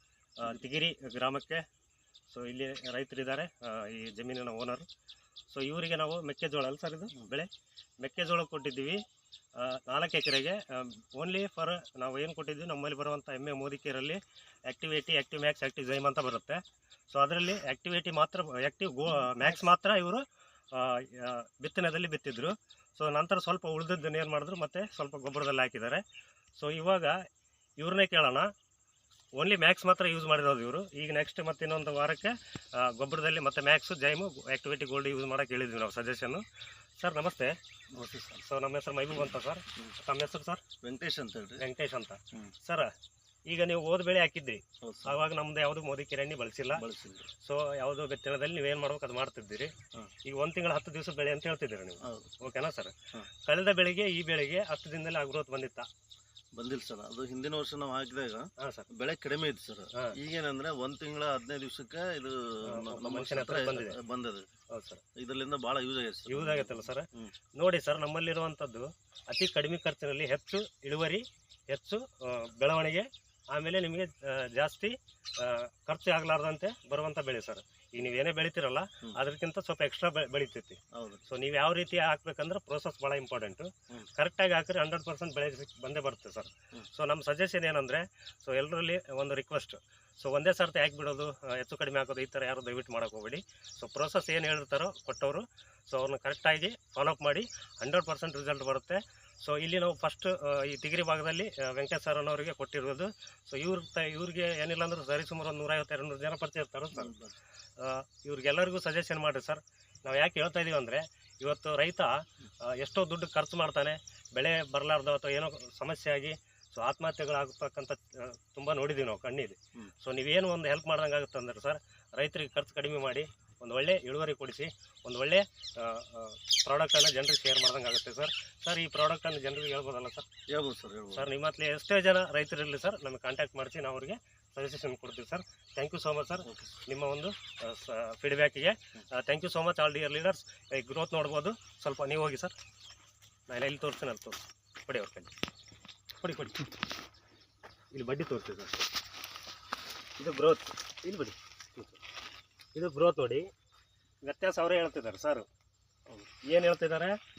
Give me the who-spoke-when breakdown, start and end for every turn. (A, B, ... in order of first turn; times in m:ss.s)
0:00.4-0:01.6 A
0:02.3-0:04.8 A
0:05.5-0:07.5 A
0:08.0-0:09.0 A
0:09.6-0:26.0 A
0:26.5-0:27.2 A
0:27.8-0:28.5 A
0:29.4-0:36.4 A
0:37.0-0:37.6 A
0:37.9-0:38.4 B
0:38.4-0:40.6 A
0:40.8-0:41.6 B
0:41.6-0:42.9 A
0:43.5-0:46.8 A
0:44.8-0:45.2 B
0:46.7-0:47.3 B
0:47.4-0:49.7 A
0:50.2-0:55.9 A
0:52.0-0:52.4 B
0:56.5-1:04.5 B
0:58.6-0:58.9 A
1:02.7-1:04.0 A
1:04.7-1:05.0 A
1:05.2-1:07.3 B
1:06.3-1:47.1 A
1:20.9-1:21.2 B
1:46.9-1:47.3 B
1:47.8-2:10.3 A
2:10.5-2:11.3 B
2:11.1-2:22.5 A
2:16.4-2:16.8 B
2:23.5-2:25.3 A
2:26.2-2:26.7 A
2:27.9-2:28.9 A
2:30.2-2:32.0 A
2:32.8-2:33.5 A
2:34.2-2:35.5 A
2:36.4-2:37.2 A